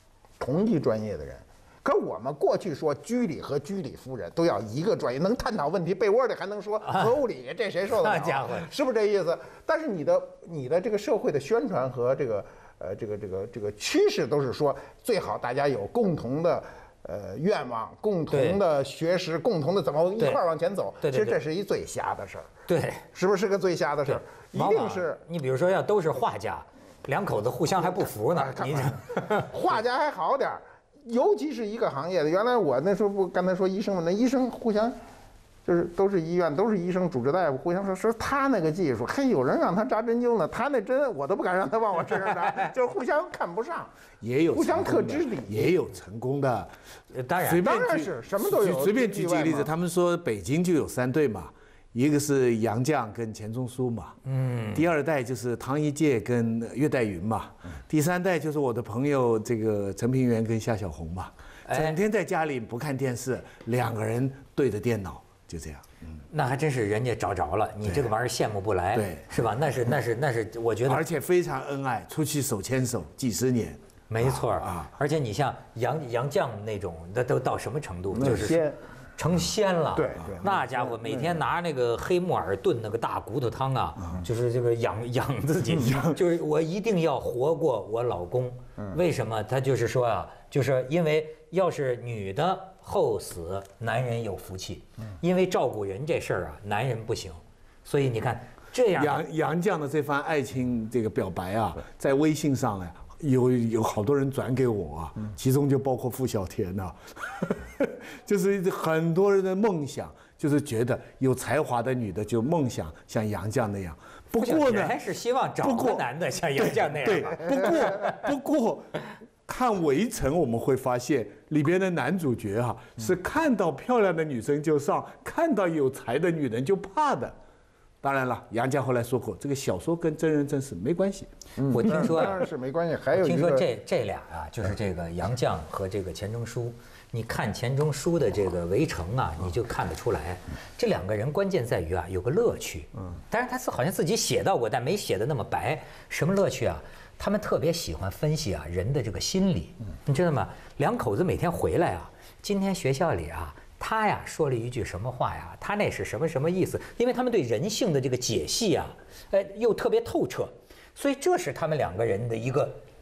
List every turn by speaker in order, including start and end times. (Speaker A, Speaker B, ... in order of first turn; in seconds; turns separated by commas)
Speaker A: 0.4-22.5, Speaker B: 6.8-7.1, Speaker B: 7.9-8.7, Speaker B: 18.3-18.6, Speaker B: 21.0-21.4, Speaker B: 22.7-23.0, Speaker A: 23.1-25.2, Speaker B: 24.1-29.5, Speaker A: 27.8-35.0, Speaker A: 35.6-43.9, Speaker C: 44.2-46.7, Speaker A: 44.5-45.8, Speaker B: 47.1-47.6, Speaker C: 47.4-54.2, Speaker A: 47.6-49.7, Speaker B: 54.2-54.9, Speaker C: 54.7-66.2, Speaker B: 61.7-62.0, Speaker B: 66.3-71.0, Speaker C: 67.8-68.1, Speaker C: 68.9-69.5, Speaker C: 70.9-74.9, Speaker B: 74.1-78.6, Speaker A: 78.1-78.8, Speaker B: 79.2-99.2, Speaker C: 80.0-80.4, Speaker A: 80.2-81.4, Speaker C: 99.0-115.0, Speaker B: 114.3-118.1, Speaker C: 115.6-116.0, Speaker C: 116.6-127.3, Speaker C: 128.0-131.3, Speaker A: 131.6-133.7, Speaker B: 131.7-132.4, Speaker B: 133.2-162.8